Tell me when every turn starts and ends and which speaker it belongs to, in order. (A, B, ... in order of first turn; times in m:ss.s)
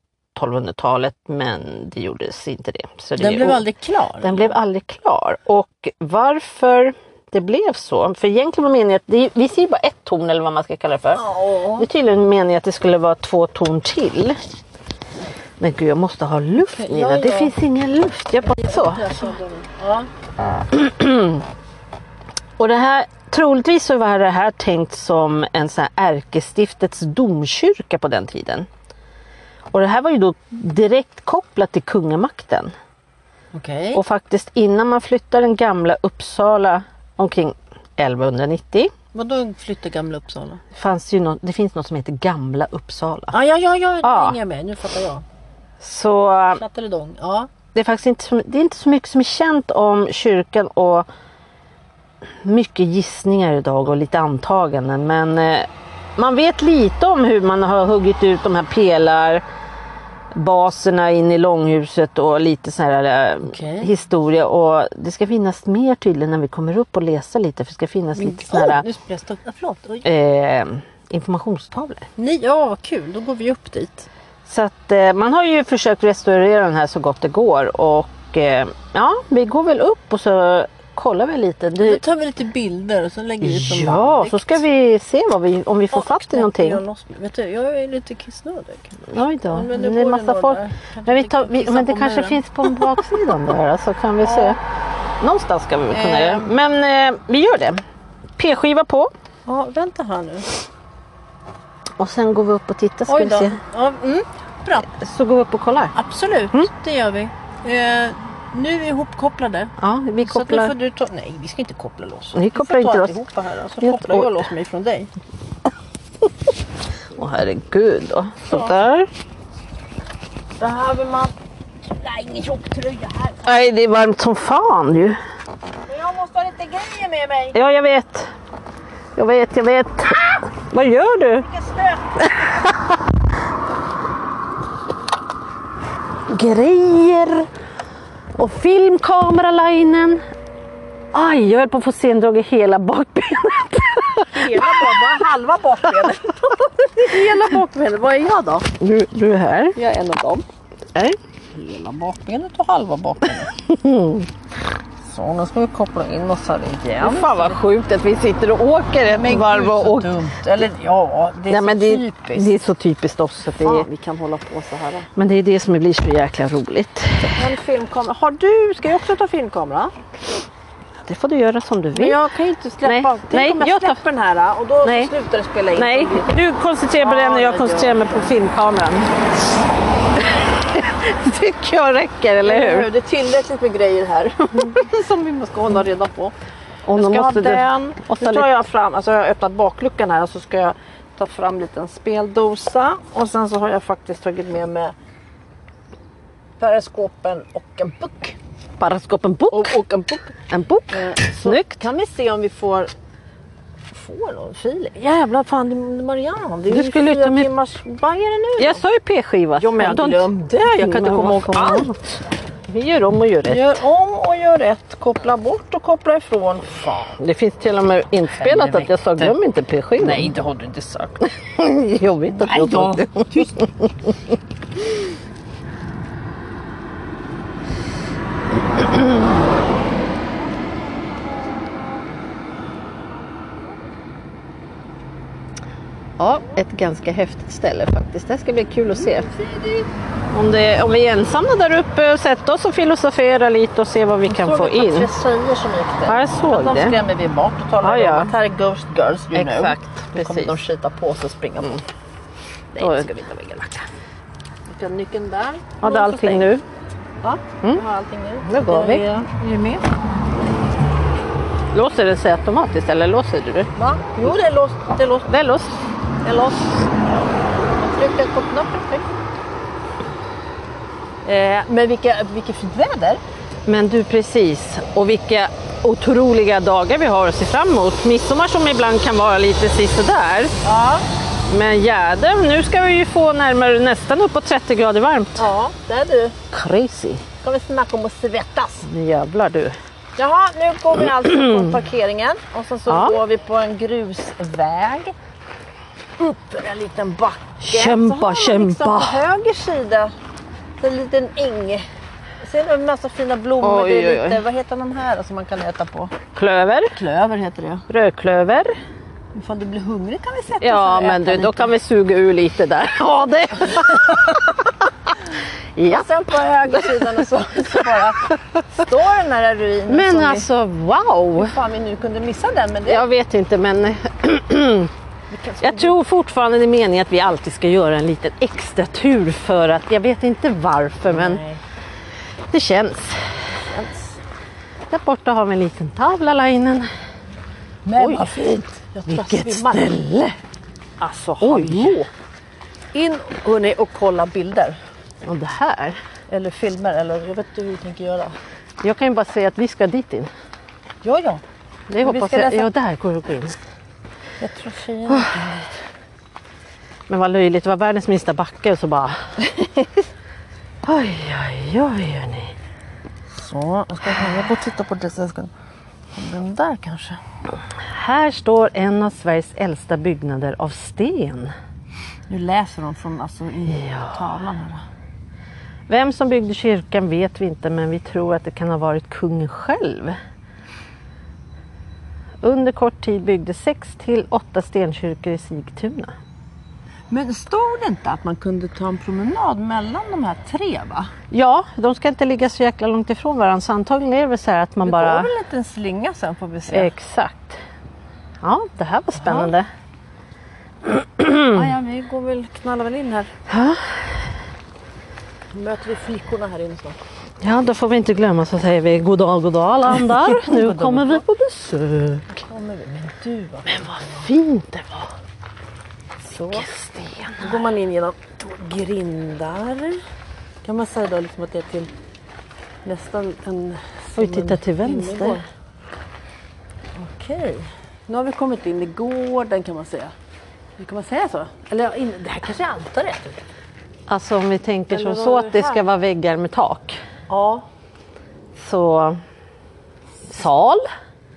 0:00.3-0:03.6 A
0:03.2-0:04.5 B
0:04.2-0:14.4 A
0:11.1-0:11.9 B
0:15.6-0:19.2 A
0:16.6-0:17.5 B
0:18.5-0:20.1 B
0:20.7-0:21.4 A
0:22.6-0:28.7 A
0:29.7-0:32.7 A
0:33.5-0:34.0 B
0:33.9-0:38.9 A
0:39.1-0:40.6 B
0:40.7-0:43.3 A
0:43.3-0:45.2 B
0:44.0-0:44.4 A
0:45.8-0:46.6 A
0:46.5-0:47.5 B
0:47.7-0:51.1 A
0:52.4-0:59.4 A
1:00.3-1:08.8 A
1:03.4-1:03.9 B
1:08.2-1:10.1 B
1:10.0-1:12.1 A
1:12.2-1:14.1 B
1:14.4-1:22.0 A
1:21.8-1:24.6 B
1:23.4-1:26.8 A
1:25.9-1:33.0 B
1:29.1-1:34.6 A
1:34.2-1:34.6 B
1:35.2-1:37.8 A
1:35.9-1:36.5 B
1:38.4-1:39.1 A
1:39.5-1:40.5 B
1:42.0-1:43.6 A
1:43.1-1:44.9 B
1:44.9-1:45.9 A
1:45.9-1:55.1 B
1:49.8-1:50.7 A
1:52.3-1:53.1 A
1:53.8-1:54.5 A
1:57.1-1:59.1 A
1:58.5-1:58.8 B
2:00.6-2:01.3 B
2:01.8-2:03.6 B
2:03.4-2:05.2 A
2:05.8-2:07.6 B
2:07.5-2:08.3 A
2:09.1-2:11.4 A
2:11.4-2:12.6 B
2:12.3-2:13.0 A
2:16.3-2:17.5 A
2:18.3-2:20.2 A
2:21.1-2:25.1 A
2:24.3-2:28.7 B
2:28.8-2:29.8 A
2:29.7-2:30.4 B
2:31.5-2:33.6 B
2:33.7-2:34.3 A
2:35.0-2:37.6 B
2:37.0-2:40.2 A
2:39.1-2:42.5 B
2:41.5-2:43.9 A
2:43.6-2:45.1 B
2:45.1-2:47.5 A
2:47.2-2:49.9 B
2:51.0-2:52.2 A
2:51.9-2:56.3 B
2:52.8-2:54.0 A
2:54.8-2:55.1 A
2:55.7-2:59.1 A
2:57.0-2:58.3 B
3:00.2-3:02.9 A
3:02.4-3:06.3 B
3:06.9-3:08.5 A
3:06.9-3:14.9 B
3:16.6-3:18.4 B
3:18.8-3:19.7 A
3:19.5-3:20.4 B
3:20.5-3:21.8 A
3:20.9-3:22.9 B
3:23.9-3:28.8 B
3:26.7-3:27.5 A
3:28.6-3:32.0 A
3:29.6-3:32.0 B
3:32.7-3:33.7 A
3:33.5-3:37.1 B
3:37.2-3:40.3 A
3:38.4-3:39.4 B
3:40.0-3:41.2 B
3:41.3-3:44.3 A
3:42.3-3:43.7 B
3:56.2-3:59.3 A
3:59.1-3:59.9 B
4:00.3-4:05.2 A
4:04.3-4:11.8 B
4:06.1-4:07.0 A
4:07.8-4:08.3 A
4:09.3-4:10.6 A
4:12.7-4:13.8 B
4:12.8-4:13.1 A
4:14.7-4:16.5 B
4:15.8-4:16.6 A
4:17.2-4:19.8 B
4:18.4-4:19.0 A
4:21.7-4:23.7 A
4:23.8-4:25.3 B
4:25.3-4:25.7 A
4:26.2-4:29.2 B
4:31.2-4:33.2 B
4:33.6-4:40.6 A
4:40.6-4:41.0 B
4:41.5-4:45.4 A
4:45.4-4:46.4 B
4:46.5-4:47.2 A
4:47.4-4:48.9 B
4:48.8-4:49.8 A
4:50.2-4:55.1 B
4:52.9-4:53.2 A
4:56.2-5:00.1 B
4:57.6-4:59.2 A
5:00.8-5:01.8 B
5:02.4-5:06.1 B
5:03.6-5:04.4 A
5:06.3-5:06.9 A
5:06.9-5:07.8 B
5:07.9-5:08.7 A
5:09.3-5:11.7 B
5:10.6-5:14.8 A
5:15.8-5:16.1 A
5:15.8-5:20.5 B
5:16.7-5:18.4 A
5:19.9-5:21.5 A
5:21.4-5:23.0 B
5:22.9-5:24.9 A
5:25.3-5:26.0 B
5:25.6-5:31.4 A
5:31.1-5:31.6 B
5:32.5-5:33.4 A
5:33.6-5:34.2 B
5:34.9-5:36.9 A
5:37.8-5:39.9 B
5:38.0-5:38.4 A
5:39.1-5:40.3 A
5:41.0-5:42.1 B
5:41.4-5:42.1 A
5:42.9-5:44.8 B
5:45.2-5:46.0 A
5:46.3-5:48.4 B
5:48.8-5:50.3 A
5:51.0-5:51.4 B
5:51.9-5:53.6 A
5:52.0-5:52.7 B
5:54.4-5:55.6 B
5:55.1-5:55.4 A
5:57.1-5:59.2 A
6:00.8-6:02.5 A
6:03.3-6:05.5 B
6:06.1-6:07.2 B
6:07.8-6:11.5 A
6:12.3-6:14.8 B
6:13.7-6:14.2 A
6:15.9-6:20.2 A
6:22.4-6:26.1 A
6:27.1-6:31.1 B
6:31.3-6:35.3 A
6:34.8-6:36.9 B
6:36.7-6:37.6 A
6:38.4-6:39.7 A
6:39.2-6:39.5 B
6:40.8-6:41.6 A
6:41.5-6:43.3 B
6:43.5-6:44.1 A
6:45.5-6:47.0 B
6:47.4-6:52.3 A
6:50.1-6:51.2 B
6:52.3-6:54.3 B
6:53.7-6:55.1 A
6:56.2-6:56.6 B
6:56.4-6:57.6 A
6:57.4-7:00.0 B
7:00.6-7:01.9 B
7:02.8-7:05.4 B
7:04.2-7:05.4 A
7:07.0-7:10.1 B
7:10.8-7:13.4 B
7:14.1-7:17.0 A
7:14.9-7:15.8 B
7:17.3-7:17.6 B
7:18.6-7:19.2 A
7:20.3-7:20.9 A